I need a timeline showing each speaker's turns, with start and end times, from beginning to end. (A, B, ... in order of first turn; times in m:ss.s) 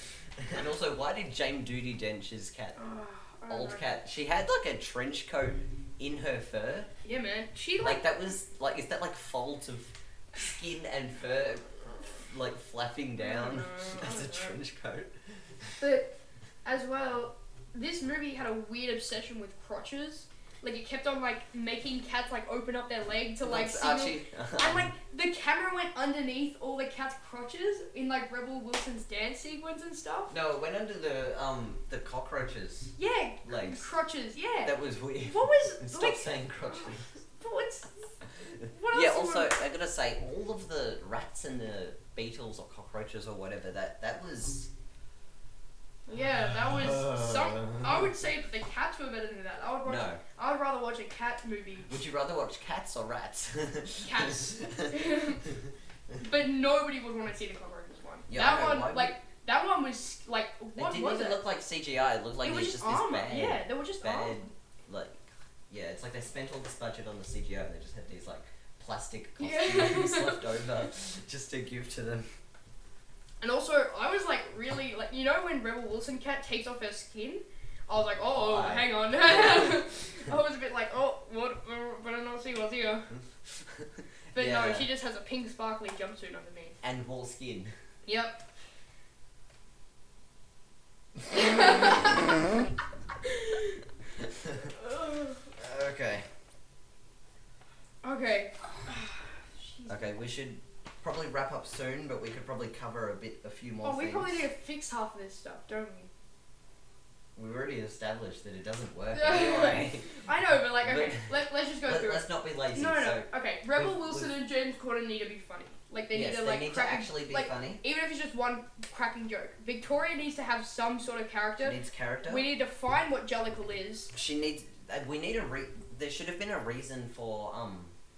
0:00.4-0:02.8 A
0:02.8-0:03.8 B
0:03.5-0:06.9 A
0:07.0-0:08.0 B
0:07.8-0:11.7 A
0:12.3-0:15.8 A
0:13.2-0:14.6 B
0:15.8-0:16.1 B
0:16.6-0:30.4 B
0:23.4-0:24.9 A
0:30.3-0:33.9 A
0:33.0-0:39.5 B
0:34.6-0:37.0 A
0:38.9-0:44.7 A
0:46.1-0:51.9 B
0:46.6-0:48.0 A
0:49.8-0:50.2 A
0:51.9-0:55.6 A
0:54.0-0:55.4 B
0:56.2-1:01.4 B
0:58.3-0:59.1 A
1:00.8-1:12.3 A
1:02.4-1:04.5 B
1:09.4-1:10.5 B
1:13.4-1:23.1 B
1:18.3-1:19.8 A
1:23.6-1:24.9 A
1:24.4-1:26.8 B
1:26.8-1:27.7 A
1:28.1-1:28.4 B
1:31.3-1:32.3 B
1:33.2-1:33.8 B
1:34.4-1:34.7 A
1:34.6-1:35.5 B
1:35.6-1:36.3 A
1:38.0-1:40.1 B
1:39.9-1:44.5 A
1:43.8-1:46.1 B
1:47.4-1:50.2 A
1:49.1-2:04.1 B
1:50.8-1:54.3 A
1:56.1-1:57.8 A
2:01.6-2:02.5 A
2:04.1-2:07.9 A